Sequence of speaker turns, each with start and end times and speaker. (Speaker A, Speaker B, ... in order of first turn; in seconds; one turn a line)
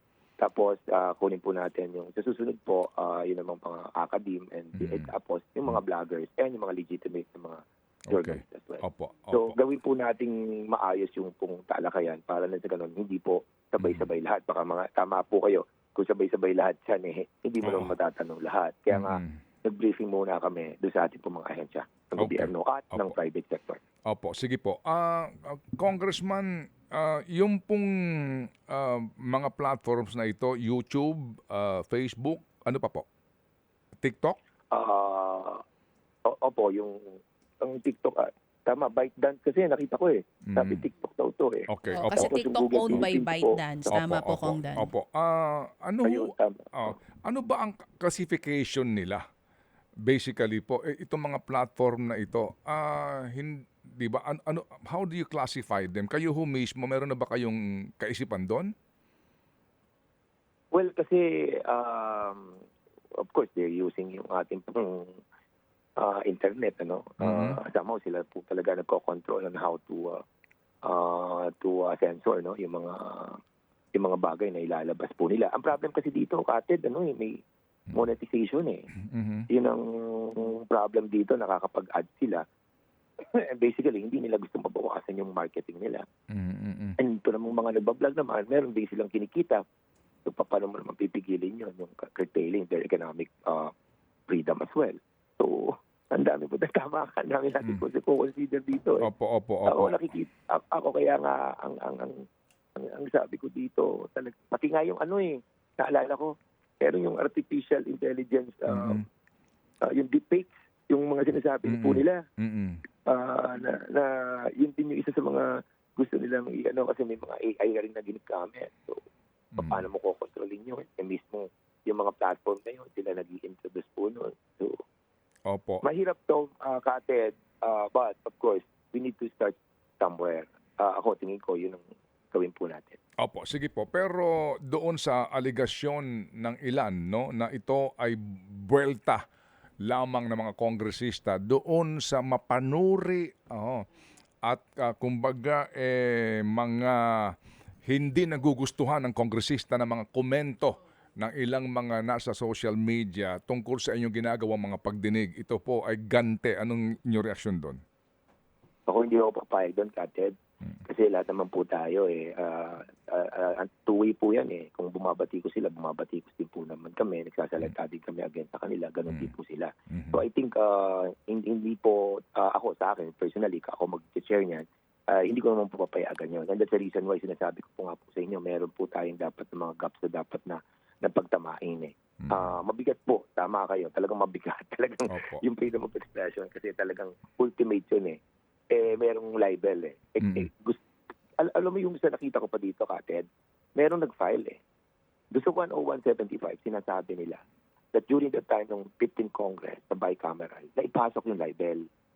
Speaker A: 0.4-23.8
Speaker B: 4.8-5.1
Speaker B: 8.1-9.6
Speaker B: 13.8-14.1
Speaker B: 17.6-17.9
Speaker B: 18.9-19.4
Speaker B: 22.2-23.1
Speaker B: 24.1-33.0
Speaker B: 34.0-34.4
Speaker A: 34.7-35.6
Speaker A: 36.3-43.6
Speaker B: 40.5-40.9
Speaker B: 41.7-42.4
Speaker C: 41.9-44.9
Speaker B: 43.9-49.2
Speaker A: 46.0-47.0
Speaker B: 50.0-58.7
Speaker A: 60.7-62.6
Speaker A: 63.2-65.2
Speaker A: 66.0-70.2
Speaker B: 67.2-67.6
Speaker A: 70.8-73.4
Speaker A: 73.9-77.4
Speaker A: 77.9-78.8
Speaker B: 79.0-79.5
Speaker A: 79.5-82.4
Speaker A: 83.3-86.0
Speaker B: 86.3-87.0
Speaker A: 87.0-89.6
Speaker A: 90.2-93.7
Speaker A: 94.3-99.1
Speaker B: 99.0-100.0
Speaker A: 99.7-102.2
Speaker A: 102.8-109.0
Speaker B: 108.7-109.0
Speaker A: 109.8-112.2
Speaker B: 111.7-112.8
Speaker A: 113.1-119.0
Speaker B: 119.5-119.8
Speaker A: 119.6-124.8
Speaker B: 125.5-125.8
Speaker A: 125.8-133.0
Speaker B: 133.2-139.2
Speaker B: 139.8-143.8
Speaker B: 144.4-147.3
Speaker B: 147.9-157.8
Speaker A: 158.9-160.3
Speaker A: 160.8-188.2
Speaker B: 169.9-170.2
Speaker B: 182.2-182.6
Speaker B: 185.1-185.4
Speaker A: 188.7-190.8
Speaker B: 190.2-190.5
Speaker A: 191.4-194.6
Speaker A: 195.3-197.4
Speaker A: 197.9-201.9